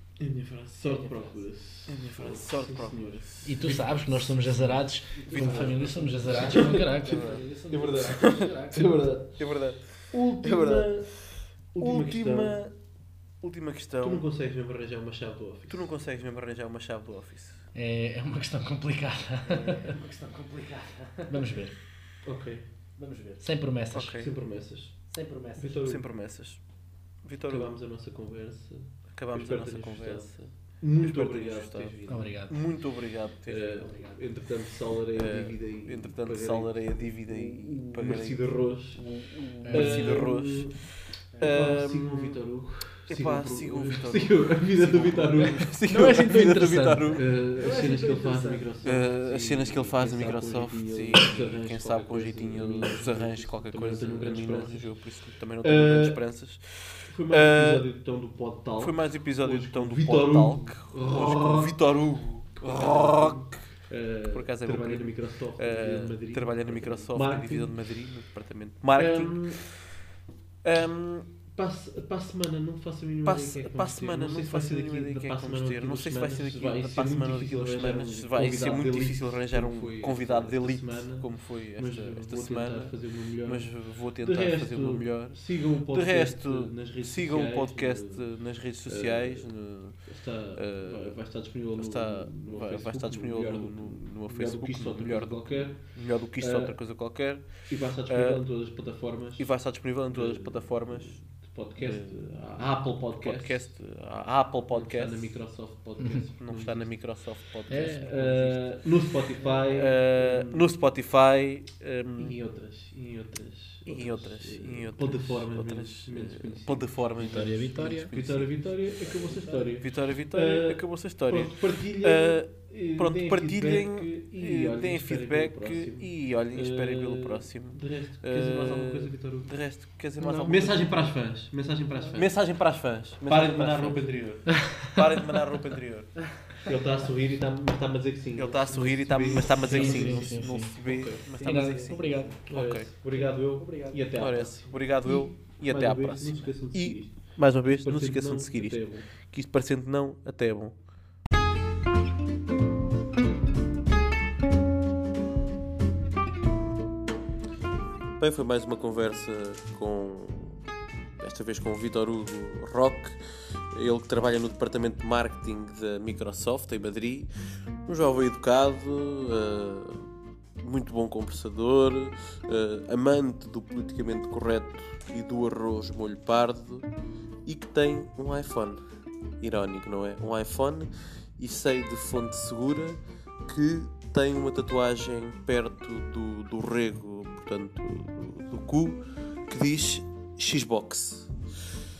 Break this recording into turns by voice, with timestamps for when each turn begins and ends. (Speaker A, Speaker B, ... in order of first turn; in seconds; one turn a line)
Speaker A: 0.2-3.8
Speaker B: 0.8-1.6
Speaker C: 1.9-6.3
Speaker D: 3.4-7.4
Speaker B: 4.6-9.2
Speaker A: 5.3-5.8
Speaker A: 6.3-6.9
Speaker C: 7.0-8.5
Speaker A: 7.7-12.7
Speaker C: 9.2-14.2
Speaker A: 14.0-15.9
Speaker C: 15.7-17.6
Speaker D: 17.7-19.9
Speaker B: 19.4-21.6
Speaker D: 21.3-21.8
Speaker A: 22.2-22.7
Speaker B: 22.9-23.7
Speaker D: 23.4-24.2
Speaker C: 23.9-24.3
Speaker A: 24.2-26.1
Speaker B: 25.1-25.9
Speaker C: 25.8-27.8
Speaker A: 27.5-32.4
Speaker C: 29.1-33.9
Speaker D: 32.1-32.8
Speaker A: 33.5-45.7
Speaker B: 33.7-34.5
Speaker C: 35.1-42.4
Speaker D: 39.6-40.2
Speaker B: 41.3-41.8
Speaker C: 43.0-47.3
Speaker D: 45.8-47.2
Speaker A: 47.1-56.3
Speaker B: 47.5-48.7
Speaker C: 48.8-57.9
Speaker A: 57.0-61.9
Speaker C: 58.8-63.8
Speaker A: 62.5-68.3
Speaker C: 64.3-69.8
Speaker A: 69.0-69.8
Speaker C: 70.6-71.3
Speaker A: 71.3-104.1
Speaker C: 73.2-98.5
Speaker C: 99.3-105.6
Speaker A: 104.7-107.2
Speaker C: 106.3-112.4
Speaker D: 107.7-108.2
Speaker A: 108.0-110.7
Speaker A: 112.2-117.1
Speaker C: 113.8-118.9
Speaker D: 117.2-118.1
Speaker A: 118.1-132.7
Speaker B: 118.9-119.7
Speaker C: 119.7-131.5
Speaker B: 131.9-132.3
Speaker C: 132.1-136.5
Speaker A: 133.2-134.4
Speaker A: 136.6-141.3
Speaker C: 138.3-142.9
Speaker D: 139.2-142.4
Speaker B: 141.2-144.8
Speaker A: 142.4-149.1
Speaker C: 144.1-150.8
Speaker C: 158.2-160.7
Speaker C: 161.2-167.3
Speaker C: 167.8-176.9
Speaker C: 177.4-178.8
Speaker C: 179.4-191.3